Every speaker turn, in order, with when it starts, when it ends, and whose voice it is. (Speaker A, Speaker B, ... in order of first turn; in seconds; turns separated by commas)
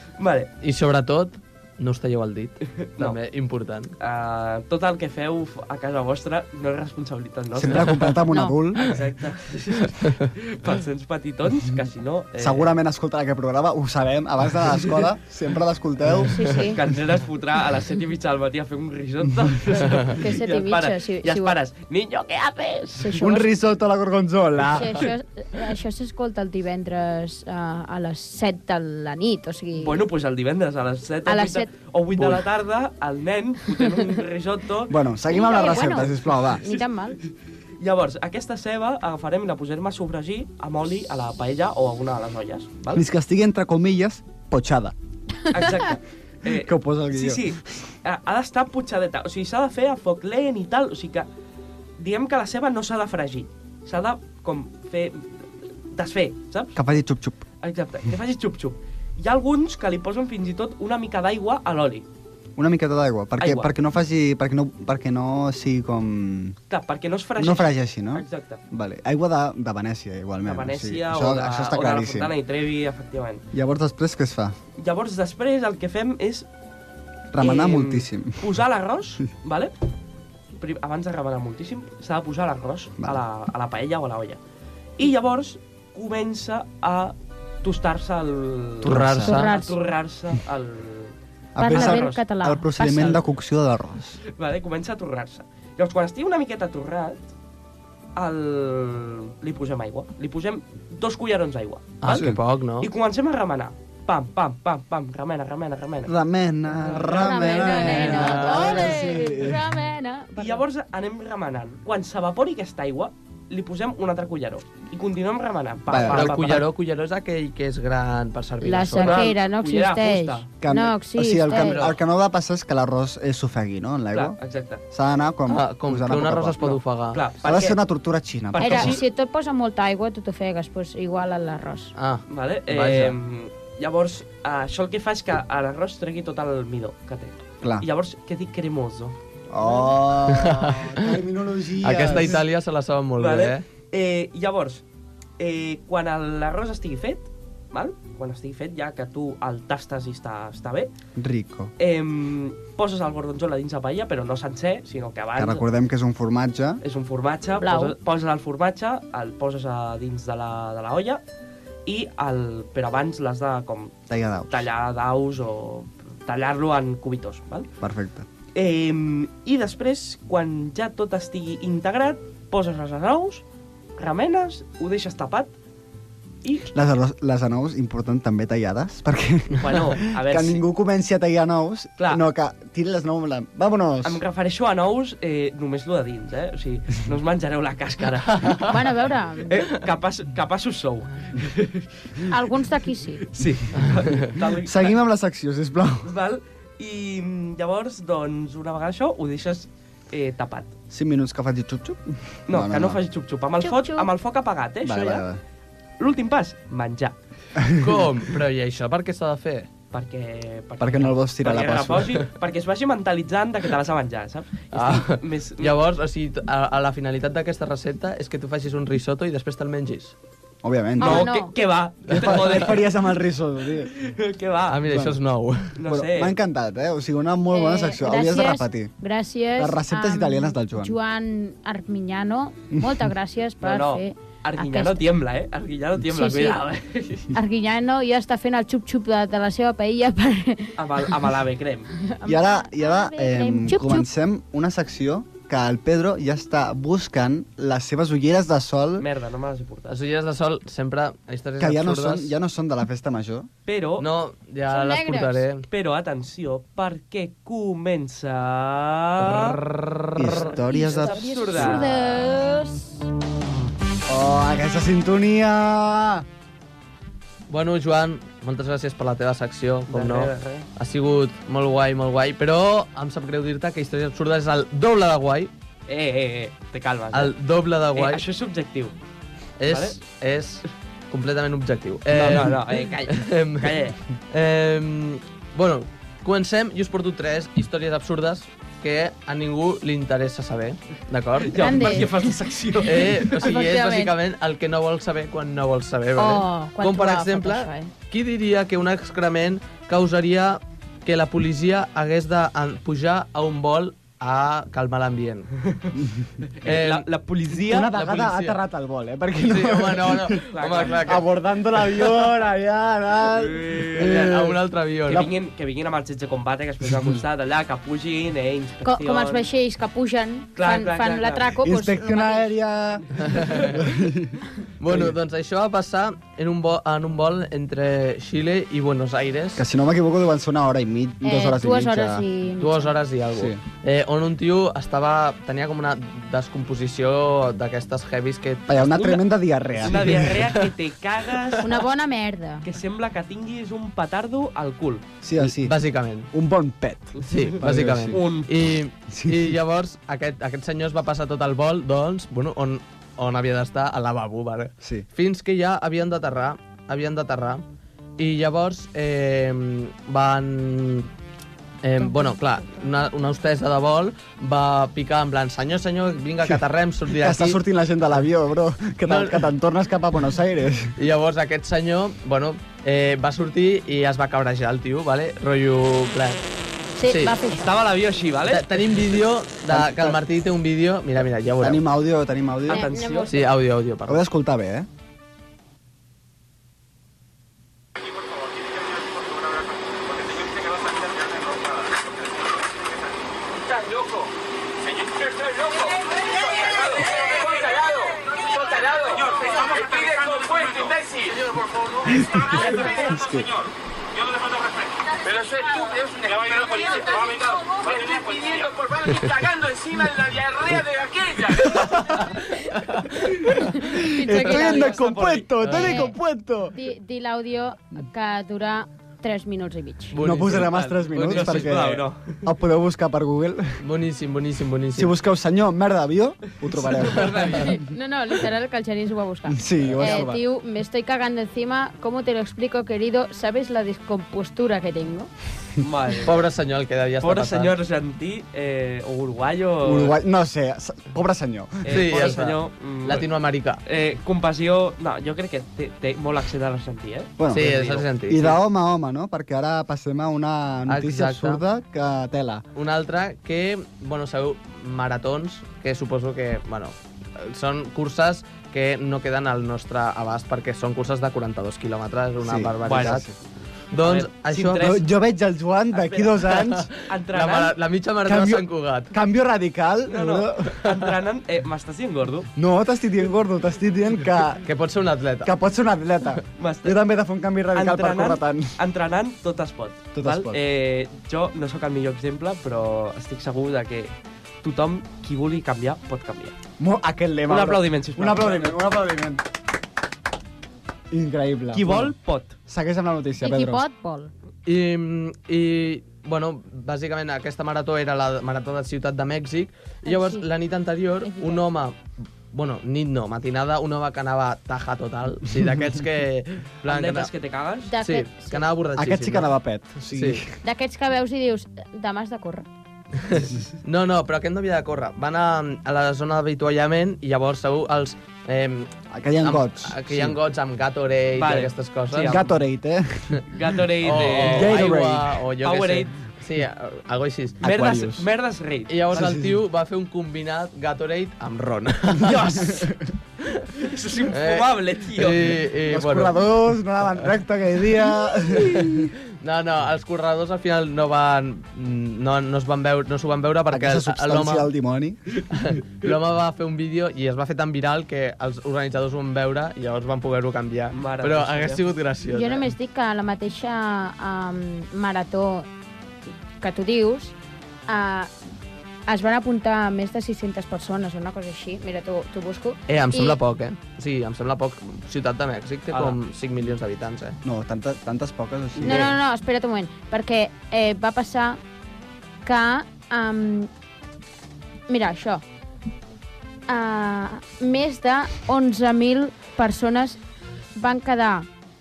Speaker A: 0.2-0.5, Speaker B: 0.6-3.9, Speaker A: 2.8-3.2, Speaker A: 4.0-8.2, Speaker C: 7.5-8.9, Speaker D: 8.3-8.6, Speaker A: 8.8-12.7, Speaker C: 12.4-16.7, Speaker D: 16.3-16.8, Speaker A: 16.6-23.3, Speaker D: 19.7-21.6, Speaker D: 23.0-23.5, Speaker C: 23.2-25.1, Speaker D: 24.7-30.0, Speaker A: 29.8-36.8, Speaker D: 31.2-31.7, Speaker C: 34.9-36.6, Speaker D: 35.3-37.2, Speaker A: 37.8-43.0, Speaker C: 42.9-44.9, Speaker A: 45.5-51.3, Speaker C: 46.5-47.5, Speaker A: 52.0-55.3, Speaker A: 55.9-56.8, Speaker C: 56.8-57.4, Speaker A: 57.6-62.0, Speaker C: 62.5-66.6, Speaker A: 63.4-63.7, Speaker A: 66.7-68.6, Speaker C: 67.4-72.3, Speaker A: 70.4-73.4, Speaker C: 73.5-74.5, Speaker A: 74.8-76.5, Speaker C: 77.3-78.6, Speaker A: 77.4-79.7, Speaker A: 80.6-84.4, Speaker A: 85.0-92.2, Speaker C: 88.8-89.4, Speaker B: 88.8-89.5, Speaker D: 89.3-89.8, Speaker C: 91.5-94.2, Speaker D: 91.6-93.2, Speaker A: 92.8-93.2, Speaker A: 94.3-97.3, Speaker A: 98.2-106.1, Speaker B: 102.0-102.9, Speaker C: 102.1-102.4, Speaker C: 106.0-109.6, Speaker A: 106.8-108.8, Speaker D: 107.0-110.6, Speaker B: 107.9-108.8, Speaker A: 110.3-116.7, Speaker C: 115.9-116.4, Speaker B: 115.9-119.3, Speaker D: 118.6-121.8, Speaker A: 119.0-120.5, Speaker C: 120.6-124.4, Speaker B: 121.6-121.9, Speaker A: 124.1-124.8, Speaker C: 124.9-126.8, Speaker B: 125.5-127.2, Speaker A: 127.1-127.8, Speaker C: 127.4-129.0, Speaker A: 128.5-129.0, Speaker D: 128.6-131.9, Speaker B: 132.0-133.2, Speaker A: 132.3-139.2, Speaker C: 139.5-142.4, Speaker B: 140.3-141.2, Speaker B: 141.8-143.6, Speaker A: 142.1-142.4, Speaker A: 143.2-144.8, Speaker A: 145.4-150.9, Speaker C: 151.2-151.7, Speaker A: 151.8-155.6, Speaker C: 155.3-156.8, Speaker A: 156.8-161.2, Speaker D: 157.6-157.9, Speaker A: 161.8-164.0, Speaker C: 164.1-164.7, Speaker A: 164.5-167.7, Speaker C: 167.8-168.2, Speaker A: 168.5-173.4, Speaker A: 174.0-175.5, Speaker A: 176.4-176.7, Speaker C: 176.7-184.2, Speaker A: 179.6-180.6, Speaker A: 182.0-182.2, Speaker A: 184.0-188.7, Speaker B: 188.4-188.6, Speaker D: 188.7-189.6, Speaker A: 189.5-192.3, Speaker D: 192.3-193.2, Speaker A: 193.3-194.9, Speaker C: 194.6-196.1, Speaker A: 196.0-200.7, Speaker C: 200.9-203.0, Speaker A: 202.5-205.2, Speaker D: 203.6-204.1, Speaker C: 204.8-205.4, Speaker A: 206.0-207.2, Speaker C: 207.6-208.0, Speaker B: 207.7-209.7, Speaker A: 209.9-215.8, Speaker C: 210.8-212.2, Speaker B: 214.7-220.1, Speaker C: 220.6-221.3, Speaker D: 221.0-221.5, Speaker A: 221.0-223.0, Speaker B: 222.1-222.6, Speaker C: 222.1-223.9, Speaker A: 223.9-224.9, Speaker B: 224.7-225.7, Speaker C: 224.9-225.2, Speaker A: 225.8-226.3, Speaker C: 225.8-228.9, Speaker D: 227.5-235.0, Speaker C: 229.6-230.9, Speaker A: 233.6-237.3, Speaker D: 236.1-236.6, Speaker D: 237.3-240.8, Speaker A: 240.8-241.9, Speaker D: 242.0-244.1, Speaker C: 242.2-249.1, Speaker A: 249.0-249.9, Speaker B: 249.9-252.3, Speaker C: 251.6-253.5, Speaker A: 253.7-254.1, Speaker B: 254.0-255.7, Speaker D: 254.7-255.4, Speaker A: 255.7-259.6, Speaker B: 259.2-260.3, Speaker C: 260.1-261.9, Speaker A: 260.2-262.1, Speaker D: 260.7-263.1, Speaker C: 264.1-266.2, Speaker B: 267.5-275.5, Speaker A: 269.9-270.7, Speaker A: 275.9-277.3, Speaker B: 277.1-278.2, Speaker A: 277.9-278.9, Speaker B: 279.6-292.1, Speaker A: 279.7-279.9, Speaker A: 282.1-284.0, Speaker A: 291.4-293.5, Speaker D: 291.6-292.1, Speaker B: 292.8-305.5, Speaker D: 293.4-294.1, Speaker D: 296.1-297.9, Speaker C: 306.0-306.2, Speaker A: 306.6-307.9, Speaker B: 306.6-307.1, Speaker C: 307.6-314.5, Speaker B: 307.9-308.6, Speaker B: 309.4-311.3, Speaker A: 310.5-311.2, Speaker A: 313.3-319.4, Speaker B: 313.9-315.3, Speaker C: 316.8-317.2, Speaker D: 318.8-322.5, Speaker A: 320.6-321.6, Speaker C: 321.6-325.1, Speaker A: 323.3-323.7, Speaker B: 323.3-323.7, Speaker B: 324.8-329.6, Speaker C: 329.6-332.2, Speaker D: 331.2-332.9, Speaker B: 332.6-338.9, Speaker C: 333.3-333.6, Speaker C: 338.7-340.5, Speaker A: 339.8-341.8, Speaker B: 339.8-340.6, Speaker D: 341.6-342.7, Speaker A: 342.6-345.1, Speaker C: 345.2-345.8, Speaker B: 345.4-346.3, Speaker C: 346.3-348.2, Speaker A: 347.2-347.6, Speaker B: 347.3-357.6, Speaker A: 348.1-348.5, Speaker C: 349.1-349.6, Speaker C: 354.8-355.1, Speaker B: 358.2-361.1, Speaker B: 361.8-367.6, Speaker D: 362.0-362.8, Speaker C: 367.1-370.9, Speaker B: 369.1-369.5, Speaker B: 371.0-376.4, Speaker D: 376.9-377.7, Speaker B: 377.0-377.4, Speaker A: 377.5-378.8, Speaker B: 378.4-381.8, Speaker C: 379.7-380.2, Speaker C: 381.6-382.9, Speaker A: 382.6-383.3, Speaker D: 382.7-383.5, Speaker B: 383.3-384.2, Speaker C: 384.1-384.9, Speaker E: 397.5-401.3, Speaker C: 402.0-403.6, Speaker A: 402.6-403.1, Speaker E: 405.4-407.4, Speaker E: 407.9-408.4, Speaker B: 409.0-409.3, Speaker C: 410.1-412.4, Speaker C: 413.6-416.7, Speaker D: 413.7-415.0, Speaker A: 414.3-415.8, Speaker D: 415.7-416.1, Speaker D: 416.7-420.1, Speaker B: 420.1-421.8, Speaker C: 420.2-423.8, Speaker A: 420.6-422.4, Speaker B: 423.8-425.1, Speaker C: 424.9-427.7, Speaker A: 426.8-427.8, Speaker D: 427.5-435.3, Speaker C: 429.5-430.4, Speaker A: 435.8-436.4, Speaker B: 436.2-437.7, Speaker A: 437.2-440.1, Speaker C: 439.8-442.0, Speaker A: 441.8-443.3, Speaker B: 441.9-443.8, Speaker A: 443.9-448.1, Speaker C: 447.4-452.6, Speaker B: 447.5-448.5, Speaker B: 450.9-451.6, Speaker B: 452.8-463.2, Speaker C: 462.4-463.3, Speaker A: 462.8-463.2, Speaker B: 463.9-465.0, Speaker A: 464.0-465.0, Speaker C: 464.7-466.9, Speaker A: 465.9-467.7, Speaker B: 466.5-469.1, Speaker C: 468.2-470.8, Speaker A: 470.1-472.5, Speaker C: 472.6-474.7, Speaker B: 474.6-475.5, Speaker C: 475.4-478.8, Speaker A: 476.6-477.0, Speaker A: 477.7-486.5, Speaker C: 480.1-480.6, Speaker C: 486.8-489.4, Speaker A: 487.5-488.8, Speaker C: 491.1-492.1, Speaker A: 491.7-492.6, Speaker C: 492.7-493.8, Speaker D: 493.4-494.3, Speaker B: 494.6-502.0, Speaker D: 500.0-500.4, Speaker D: 501.2-501.6, Speaker B: 502.5-507.3, Speaker A: 506.9-507.9, Speaker D: 507.9-508.6, Speaker B: 508.0-509.5, Speaker C: 508.9-510.5, Speaker B: 510.1-510.4, Speaker D: 510.6-512.7, Speaker B: 513.2-522.5, Speaker C: 519.1-520.4, Speaker A: 521.4-522.5, Speaker C: 522.2-525.4, Speaker A: 523.5-525.0, Speaker B: 524.0-527.7, Speaker A: 525.6-526.1, Speaker C: 527.6-528.3, Speaker A: 527.6-528.9, Speaker B: 528.9-532.7, Speaker C: 529.1-529.6, Speaker A: 532.2-532.9, Speaker C: 532.7-533.1, Speaker B: 533.4-533.7, Speaker A: 533.8-535.6, Speaker B: 534.3-536.5, Speaker C: 535.9-539.1, Speaker B: 538.5-544.7, Speaker C: 543.7-545.2, Speaker B: 545.5-552.6, Speaker A: 550.9-551.9, Speaker D: 552.3-555.7, Speaker D: 556.3-557.3, Speaker D: 557.9-558.3, Speaker D: 559.1-563.4, Speaker B: 562.9-567.4, Speaker A: 565.9-566.2, Speaker C: 567.4-569.1, Speaker D: 568.8-571.6, Speaker D: 572.4-573.7, Speaker D: 574.9-575.4, Speaker D: 576.7-580.2, Speaker D: 580.8-581.5